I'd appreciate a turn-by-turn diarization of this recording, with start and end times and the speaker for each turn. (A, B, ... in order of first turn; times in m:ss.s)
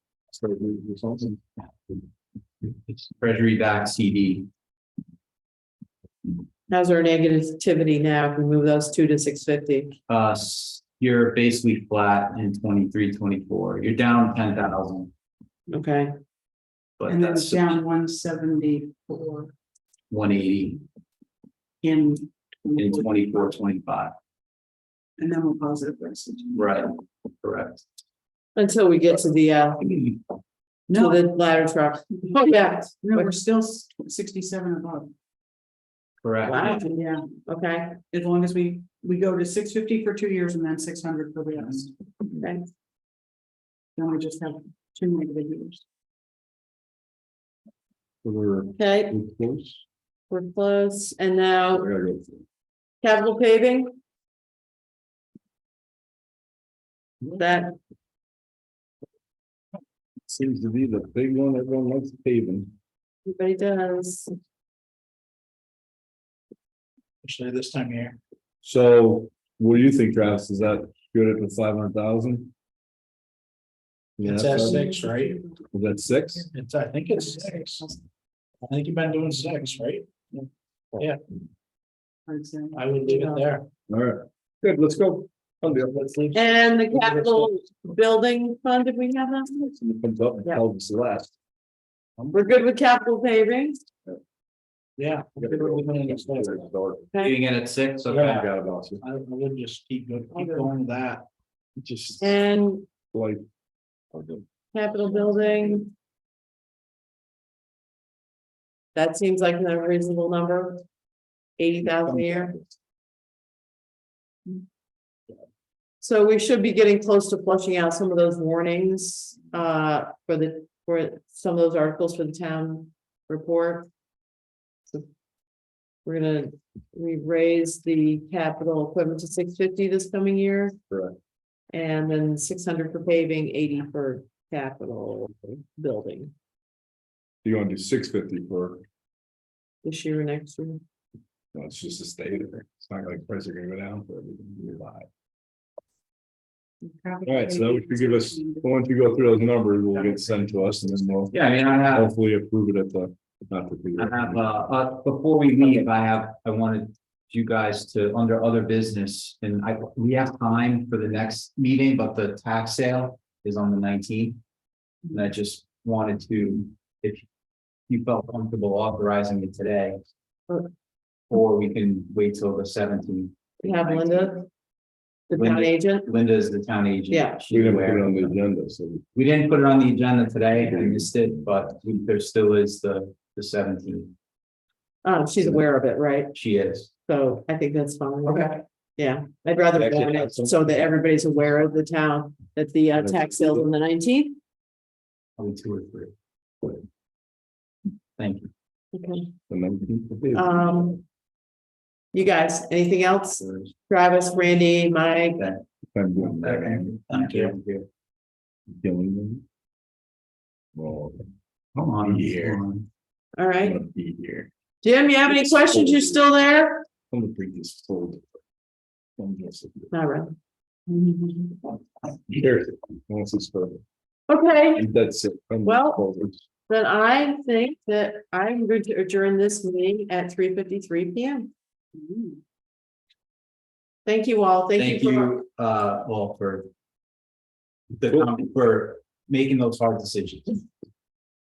0:00.3-0:01.4 A
0:02.9-0:04.5 B
0:06.7-0:09.9 C
0:10.1-0:15.1 B
0:15.7-0:16.1 C
0:17.0-0:17.7 B
0:17.0-0:19.5 D
0:20.1-0:20.8 B
0:21.8-0:23.6 D
0:22.8-0:24.1 B
0:25.2-0:26.8 D
0:26.5-0:27.8 B
0:28.6-0:29.8 C
0:29.8-0:30.2 B
0:30.9-0:31.2 D
0:31.0-0:33.3 C
0:33.0-0:35.1 D
0:36.2-0:36.7 B
0:36.4-0:38.0 C
0:36.6-0:37.3 D
0:38.1-0:41.9 D
0:42.4-0:42.7 C
0:44.0-0:45.8 D
0:48.2-0:49.8 A
0:48.7-0:49.1 C
0:50.3-0:51.9 C
0:51.7-0:52.4 A
0:53.0-0:53.9 C
0:57.2-0:57.5 A
0:57.4-0:57.7 C
1:00.3-1:02.7 A
1:03.3-1:04.3 C
1:07.2-1:08.2 E
1:08.6-1:12.5 A
1:14.2-1:14.9 A
1:14.2-1:15.4 E
1:15.7-1:16.5 A
1:16.4-1:17.9 E
1:18.6-1:20.4 E
1:22.3-1:22.8 D
1:22.7-1:23.7 E
1:23.0-1:23.4 C
1:23.9-1:27.4 A
1:26.3-1:29.6 C
1:29.6-1:31.3 A
1:32.3-1:33.8 C
1:35.0-1:36.6 E
1:35.4-1:37.0 A
1:37.1-1:37.4 C
1:37.2-1:38.5 B
1:38.1-1:38.4 E
1:38.1-1:39.0 A
1:39.0-1:41.3 E
1:40.3-1:40.7 C
1:41.8-1:42.4 A
1:42.2-1:42.9 C
1:43.1-1:43.4 A
1:44.1-1:44.4 A
1:44.7-1:45.9 C
1:48.9-1:50.8 C
1:51.6-1:52.5 C
1:51.9-1:52.6 A
1:56.0-2:03.9 C
2:06.0-2:10.7 C
2:10.9-2:11.2 A
2:11.7-2:16.3 C
2:17.4-2:18.8 A
2:19.8-2:20.8 C
2:21.5-2:25.1 A
2:26.8-2:28.7 D
2:27.2-2:31.3 A
2:29.9-2:30.7 D
2:31.3-2:32.1 B
2:31.9-2:34.5 A
2:34.0-2:44.4 B
2:45.1-2:47.2 B
2:47.9-2:50.0 B
2:51.3-2:54.3 B
2:53.6-2:54.5 C
2:55.3-2:56.1 C
2:55.3-2:58.4 B
2:57.1-2:57.4 C
2:57.5-2:59.0 A
2:59.1-3:04.1 B
3:00.8-3:01.1 A
3:05.0-3:06.3 C
3:06.3-3:06.9 B
3:07.0-3:08.4 C
3:08.2-3:08.6 B
3:09.0-3:14.4 C
3:09.7-3:10.6 A
3:12.9-3:13.7 A
3:15.4-3:16.1 B
3:18.2-3:18.5 B
3:18.9-3:19.3 C
3:19.5-3:20.7 A
3:20.3-3:21.0 C
3:22.1-3:25.4 C
3:23.4-3:23.7 B
3:25.4-3:25.6 B
3:25.9-3:27.5 A
3:26.2-3:27.9 B
3:28.7-3:29.4 A
3:30.7-3:32.6 A
3:31.8-3:32.9 B
3:33.4-3:33.8 C
3:33.6-3:34.5 A
3:34.8-3:36.8 C
3:35.5-3:36.2 A
3:37.1-3:38.3 A
3:39.2-3:39.9 A
3:39.9-3:40.3 C
3:40.9-3:41.6 D
3:42.3-3:43.8 A
3:44.3-3:44.8 C
3:44.7-3:46.4 A
3:45.6-3:46.0 C
3:46.7-3:51.4 C
3:52.0-3:52.4 D
3:54.0-3:55.4 C
3:54.8-3:56.7 B
3:57.9-4:00.6 B